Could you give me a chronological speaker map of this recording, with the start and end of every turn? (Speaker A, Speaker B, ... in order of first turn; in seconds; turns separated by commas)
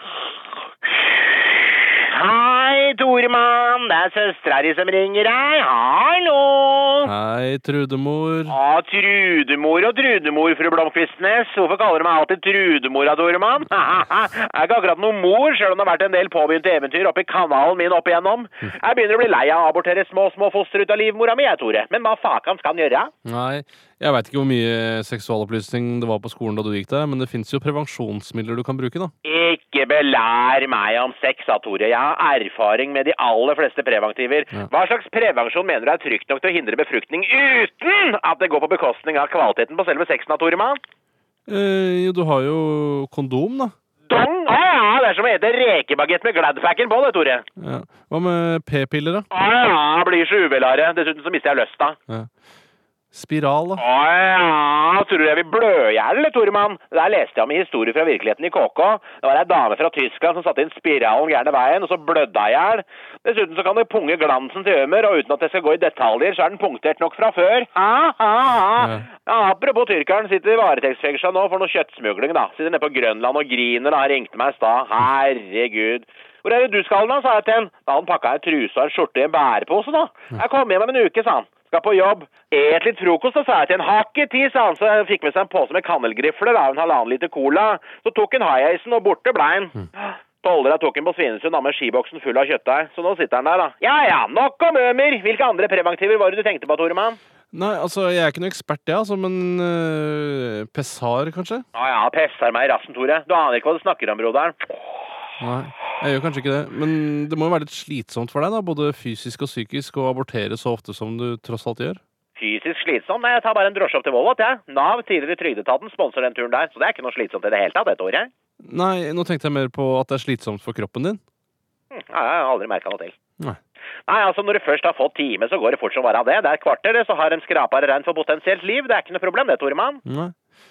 Speaker A: 1.8-7.1, Speaker B: 7.0-8.5, Speaker A: 8.5-23.1, Speaker B: 23.2-29.1, Speaker A: 29.2-40.8, Speaker B: 41.5-43.7, Speaker A: 44.1-47.4, Speaker B: 47.6-49.3, Speaker A: 49.3-52.0, Speaker B: 53.1-53.8, Speaker A: 53.8-97.2, Speaker B: 68.8-69.0, Speaker B: 97.5-101.7, Speaker A: 101.7-104.6, Speaker B: 105.4-112.0, Speaker A: 112.4-118.3, Speaker B: 118.6-121.2, Speaker A: 121.9-123.1, Speaker A: 124.1-130.0, Speaker B: 130.0-130.3